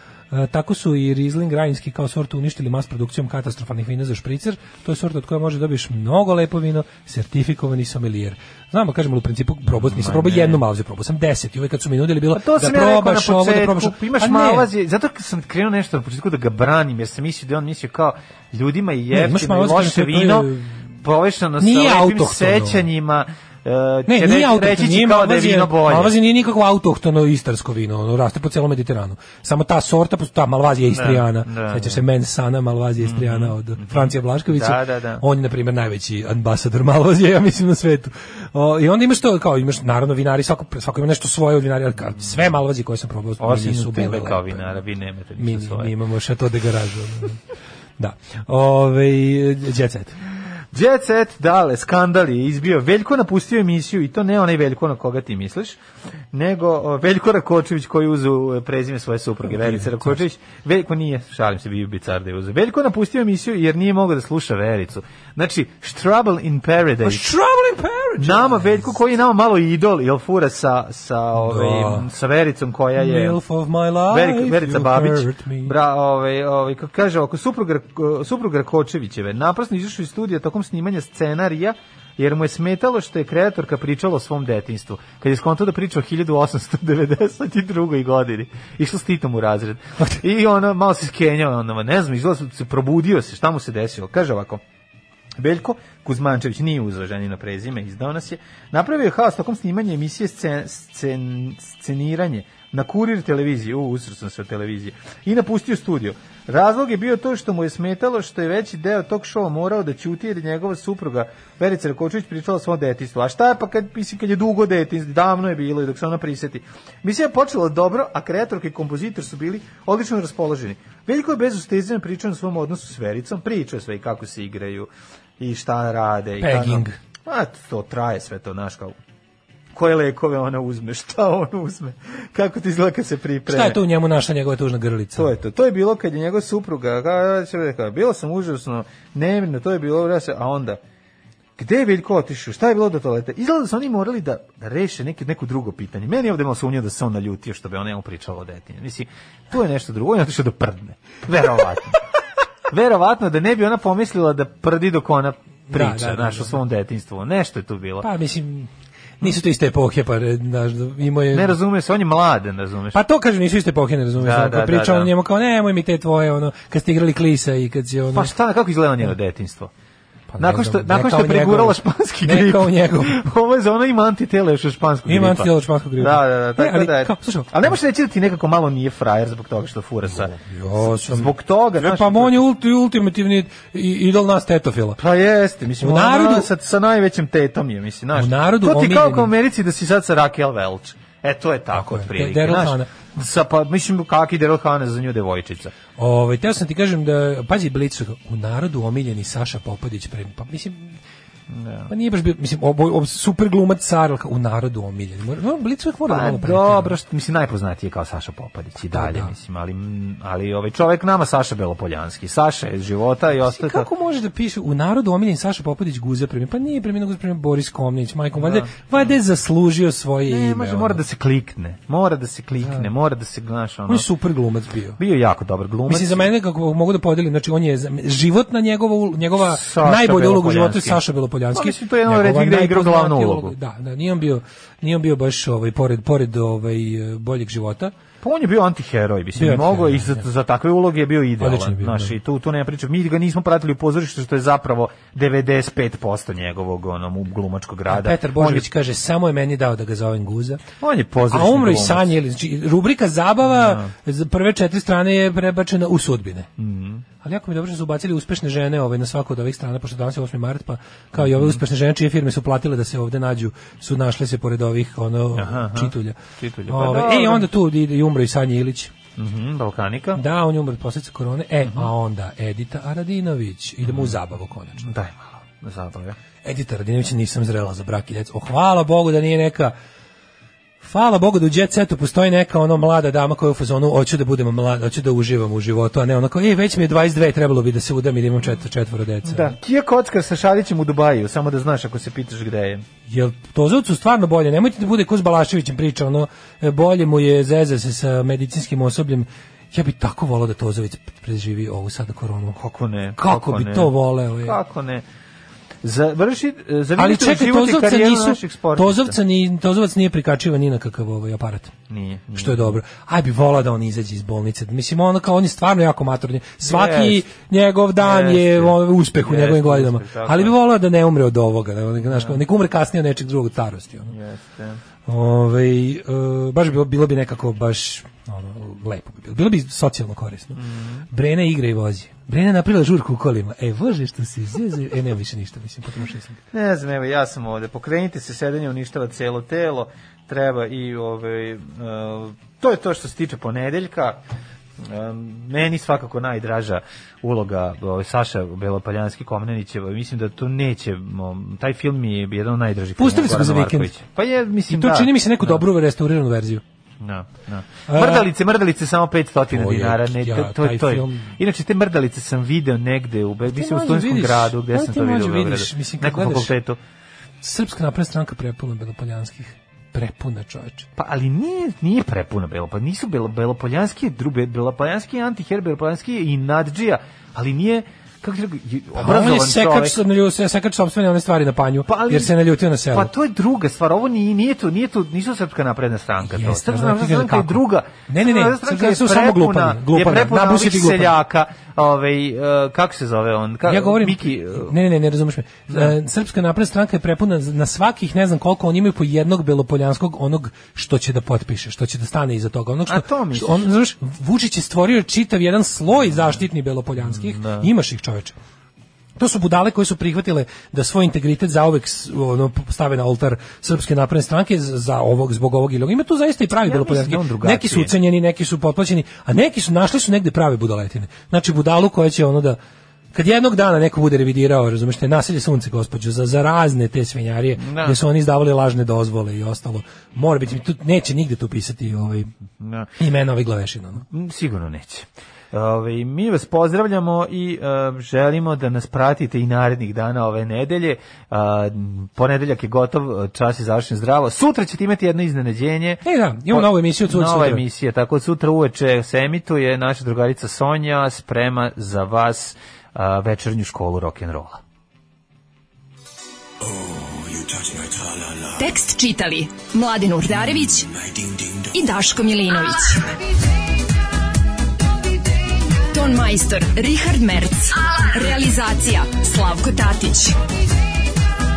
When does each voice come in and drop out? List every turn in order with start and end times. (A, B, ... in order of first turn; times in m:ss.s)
0:00.3-0:14.7 A
0:09.7-0:10.6 B
0:12.3-0:20.5 B
0:19.1-0:20.8 A
0:21.0-0:26.2 B
0:21.6-0:22.8 A
0:24.1-0:44.8 A
0:30.9-0:32.0 B
0:33.0-0:35.2 B
0:43.4-0:45.9 B
0:45.4-0:47.4 A
0:48.0-0:50.2 A
0:50.7-0:55.8 B
0:56.3-1:07.3 B
0:59.4-1:00.2 A
1:07.0-1:08.9 A
1:08.2-1:13.4 B
1:11.4-1:12.1 A
1:13.0-1:15.7 A
1:14.1-1:34.6 B
1:35.4-2:04.9 B
2:05.4-2:09.0 B
2:06.4-2:07.0 A
2:09.7-2:13.8 B
2:13.5-2:15.4 A
2:15.2-2:20.8 B
2:21.6-2:32.0 B
2:32.7-2:38.1 B
2:35.7-2:36.6 A
2:38.0-2:41.6 A
2:41.3-2:43.0 B
2:42.9-2:48.3 A
2:44.2-2:45.1 B
2:48.1-2:49.7 B
2:50.3-2:53.2 A
2:50.4-3:02.4 B
2:55.0-2:57.8 A
3:00.1-3:05.0 A
3:05.0-3:15.7 B
3:05.8-3:06.5 A
3:08.1-3:09.3 A
3:11.7-3:12.9 A
3:16.0-3:21.0 A
3:21.5-3:21.9 B
3:21.9-3:27.0 A
3:26.1-3:33.9 B
3:28.8-3:29.3 A
3:33.4-3:41.0 A
3:38.4-3:38.7 B
3:40.3-3:44.1 B
3:42.6-3:42.9 A
3:43.9-3:45.0 A
3:45.0-3:46.3 B
3:45.9-3:57.9 A
3:49.4-3:51.0 B
3:51.5-3:53.5 B
3:58.2-4:08.6 B
3:59.4-4:00.2 A
4:01.4-4:02.2 A
4:07.9-4:10.6 A
4:10.8-4:12.1 B
4:11.3-4:16.5 A
4:13.4-4:13.9 B
4:16.6-4:17.0 B
4:17.2-4:28.9 A
4:21.2-4:21.6 B
4:25.3-4:27.5 B
4:29.2-4:30.2 B
4:30.1-4:34.9 A
4:31.6-4:31.9 B
4:33.8-4:34.1 B
4:34.8-4:36.2 B
4:36.4-4:39.7 A
4:40.8-4:49.5 A
4:49.2-4:52.8 B
4:53.1-5:02.6 A
5:02.6-5:05.0 B
5:03.2-5:04.6 A
5:05.8-5:09.2 B
5:07.0-5:11.7 A
5:11.9-5:12.8 B
5:12.3-5:24.1 A
5:16.6-5:17.2 B
5:18.0-5:20.6 B
5:22.0-5:22.4 B
5:24.1-5:24.8 B
5:25.1-5:36.4 A
5:30.5-5:31.1 B
5:36.5-5:44.2 B
5:44.8-5:55.6 B
5:53.0-5:53.9 A
5:54.7-5:56.6 A
5:57.0-6:06.8 B
5:57.9-5:58.3 A
5:59.5-6:01.3 A
6:03.4-6:06.5 A
6:07.4-6:10.9 A
6:11.0-6:20.0 B
6:18.9-6:23.1 A
6:21.8-6:22.3 B
6:22.9-6:34.7 B
6:26.2-6:31.1 A
6:33.6-6:48.4 A
6:35.7-6:35.9 B
6:42.9-6:43.7 B
6:47.0-6:47.7 B
6:49.2-7:02.6 A
6:56.6-6:57.9 B
7:03.1-7:12.3 A
7:07.6-7:08.0 B
7:12.6-7:12.9 B
7:13.0-7:14.0 A
7:14.1-7:34.6 B
7:26.0-7:27.6 A
7:38.4-7:41.0 C
7:41.6-7:43.1 C
7:45.9-7:50.4 C